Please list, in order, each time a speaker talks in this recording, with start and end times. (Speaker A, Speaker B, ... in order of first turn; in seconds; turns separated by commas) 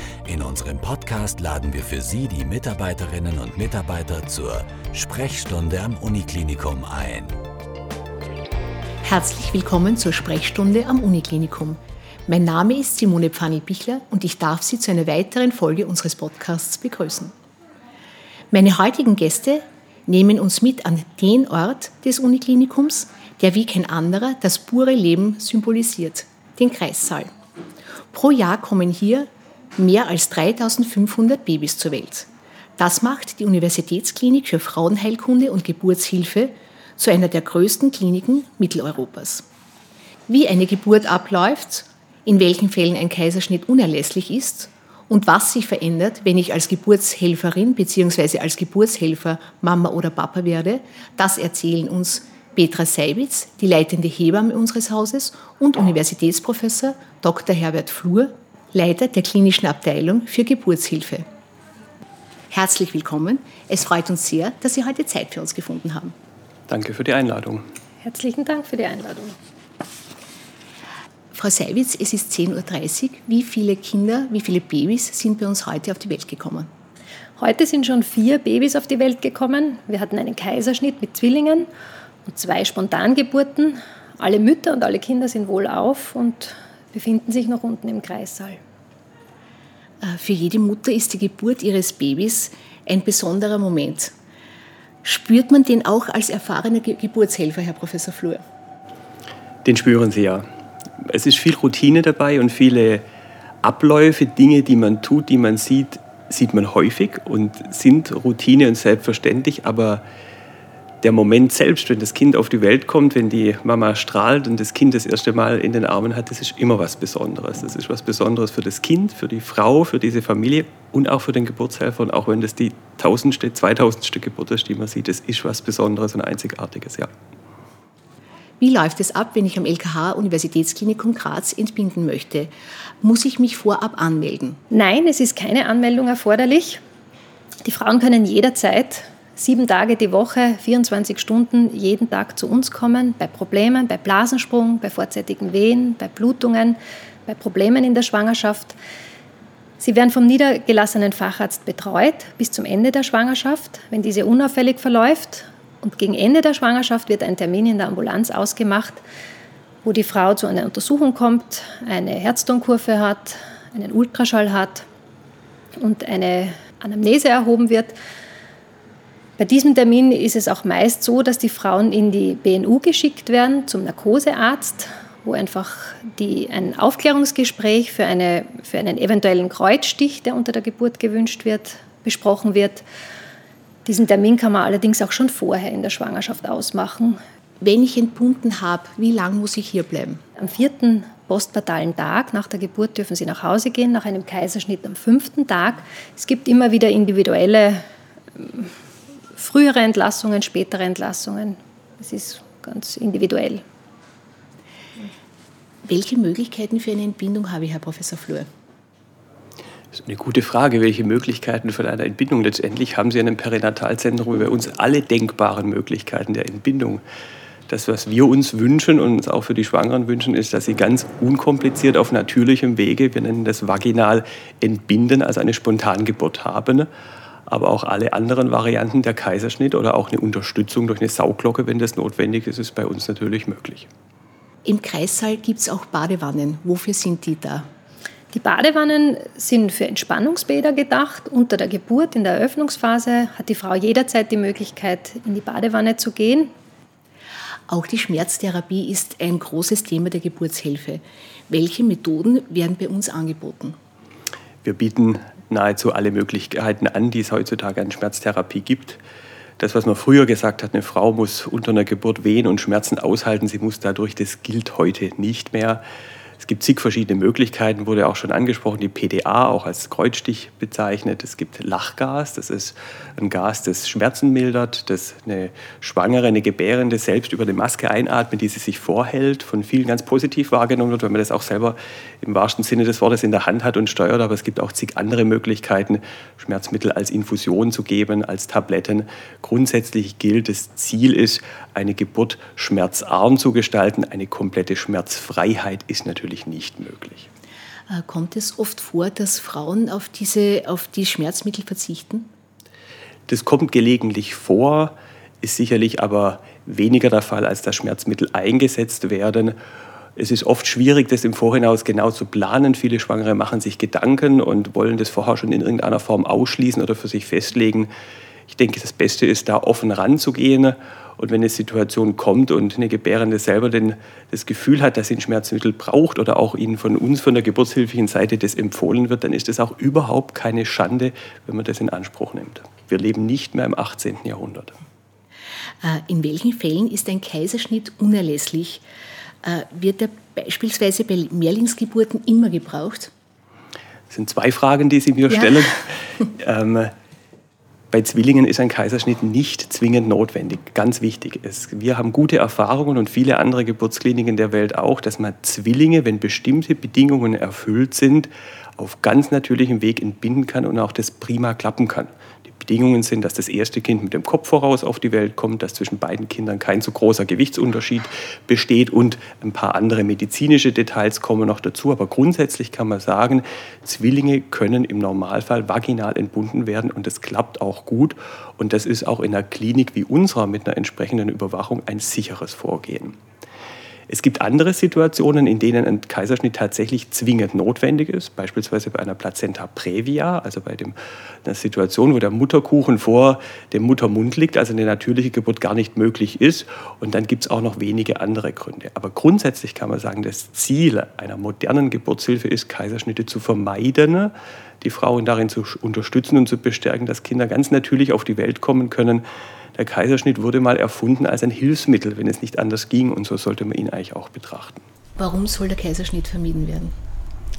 Speaker A: 0.2-7.4, Speaker B: 9.0-17.3, Speaker B: 18.5-27.3, Speaker B: 28.1-39.5, Speaker B: 40.3-61.2, Speaker B: 62.5-66.2, Speaker C: 66.7-67.6, Speaker D: 68.0-69.3, Speaker B: 71.3-76.7, Speaker D: 77.4-81.7, Speaker D: 82.2-88.6, Speaker B: 90.0-94.1, Speaker B: 95.0-98.4, Speaker C: 99.7-100.5, Speaker C: 101.0-103.0, Speaker C: 103.6-110.0, Speaker C: 111.0-127.1, Speaker B: 128.6-132.5, Speaker B: 133.0-134.6, Speaker D: 134.7-136.8, Speaker D: 137.6-148.8, Speaker D: 149.8-159.0, Speaker D: 159.8-164.9, Speaker D: 165.8-167.9, Speaker D: 169.4-182.8, Speaker D: 183.8-187.2, Speaker B: 187.6-190.2, Speaker D: 190.4-197.8, Speaker D: 198.4-198.7, Speaker D: 199.3-203.6, Speaker B: 205.8-208.5, Speaker C: 209.9-217.0, Speaker C: 217.7-226.9, Speaker C: 227.5-233.9, Speaker B: 234.7-237.7, Speaker D: 238.3-246.5, Speaker B: 247.7-253.8, Speaker C: 254.6-259.0, Speaker C: 259.6-265.8, Speaker C: 266.4-297.3, Speaker B: 297.9-302.3, Speaker C: 303.3-309.6, Speaker C: 310.2-317.9, Speaker C: 318.5-334.8, Speaker B: 335.8-338.9, Speaker B: 339.4-343.1, Speaker C: 344.1-346.9, Speaker B: 345.3-345.6, Speaker C: 347.9-383.2, Speaker C: 384.1-409.2, Speaker C: 409.8-414.8, Speaker B: 415.2-416.9